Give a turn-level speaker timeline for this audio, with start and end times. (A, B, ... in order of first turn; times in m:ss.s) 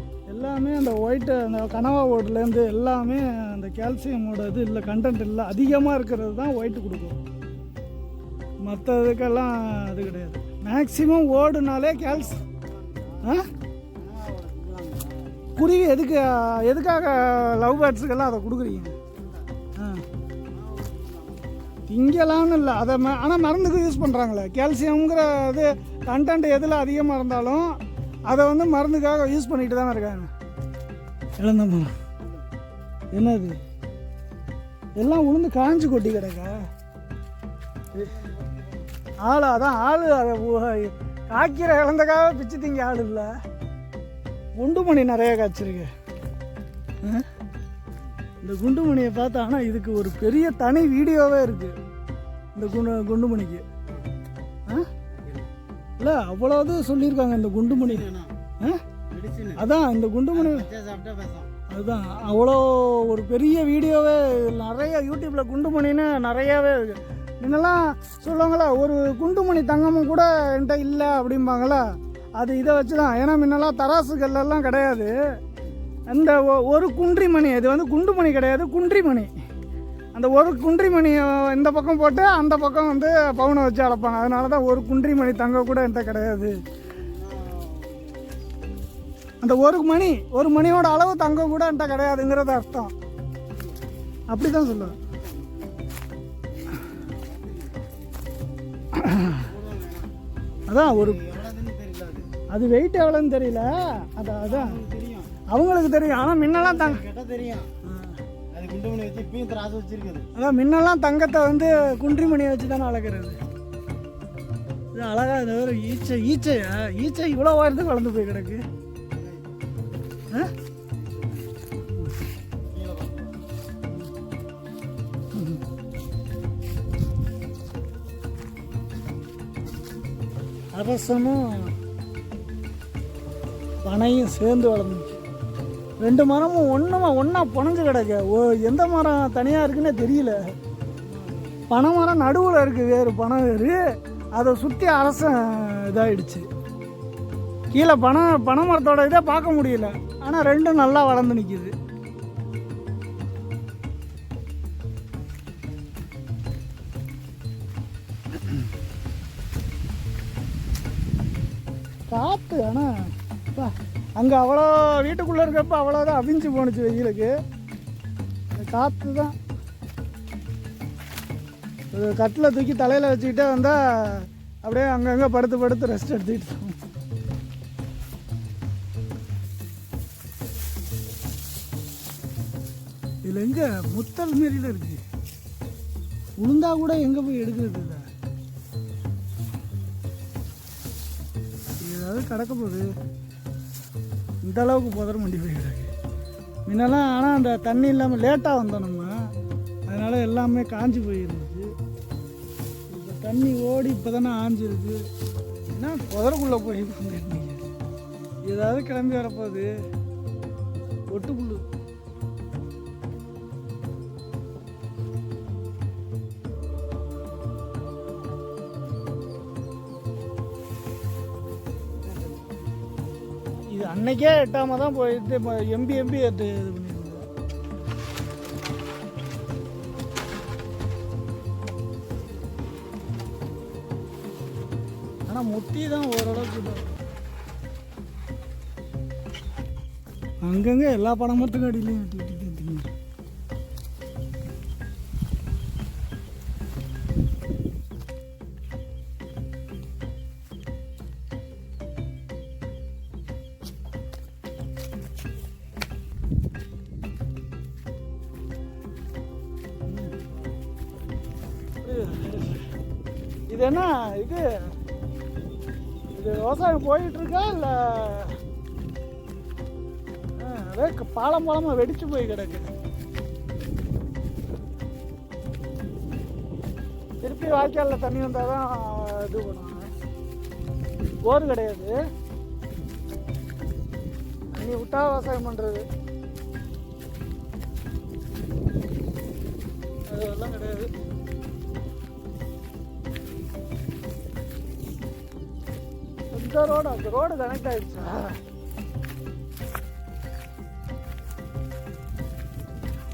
0:00.3-0:07.2 A
0:08.6-0:12.4 A
0:12.1-0:13.4 B
0:13.2-0:13.5 A
0:13.9-0:15.5 B
0:15.6-0:19.0 A
0:19.8-0:20.0 A
0:20.5-0:21.8 B
0:21.9-0:27.8 A
0:28.3-0:30.3 A
0:31.4-0:31.9 A
0:33.1-0:33.6 A
0:35.0-0:36.7 A
0:38.0-0:38.8 B
0:39.2-0:43.3 A
0:44.6-0:45.9 A
0:47.0-0:47.3 A
0:48.4-0:51.7 A
0:52.6-0:53.6 A
0:55.2-0:55.5 B
0:56.0-0:58.1 A
0:57.8-0:58.3 B
0:59.1-0:59.7 B
0:59.6-1:00.7 A
1:00.4-1:01.6 B
1:01.7-1:15.1 A
1:16.1-1:19.3 A
1:20.1-1:26.6 A
1:26.9-1:28.4 B
1:29.4-1:32.9 A
1:34.3-1:35.0 A
1:35.0-1:35.7 B
1:36.9-1:37.9 B
1:38.9-1:39.5 A
1:39.3-1:40.1 B
1:40.7-1:41.3 A
1:41.0-1:42.3 B
1:42.5-1:44.8 A
1:44.5-1:45.4 B
1:45.5-1:47.0 A
1:46.6-1:47.7 B
1:47.8-1:48.2 A
1:48.5-1:50.3 B
1:50.4-1:53.4 A
1:54.9-1:58.6 A
2:01.0-2:01.5 B
2:02.7-2:03.4 B
2:05.3-2:05.6 A
2:10.7-2:11.8 A
2:13.8-2:15.1 A
2:16.0-2:20.4 A
2:21.1-2:21.7 B
2:21.7-2:23.8 A
2:24.4-2:26.5 A
2:27.7-2:31.7 A
2:42.1-2:42.9 A
2:43.5-2:47.3 A
2:48.5-2:49.4 A
2:51.9-2:56.8 A
3:03.2-3:05.0 A
3:06.4-3:08.1 A
3:11.8-3:12.9 A
3:14.4-3:15.9 A
3:16.7-3:19.2 A
3:19.9-3:21.7 A
3:22.9-3:25.0 A
3:25.7-3:27.7 A
3:28.5-3:29.7 A
3:31.1-3:31.6 A
3:43.7-3:47.2 A
3:55.3-3:56.9 A
4:00.4-4:02.9 A
4:19.9-4:20.2 A
4:21.8-4:22.7 A
4:23.5-4:24.7 A
4:26.1-4:28.4 A
4:30.4-4:32.7 A
4:37.2-4:39.9 A
4:41.2-4:42.0 A
4:44.5-4:45.8 A
4:50.1-4:50.9 A
4:56.3-4:58.4 A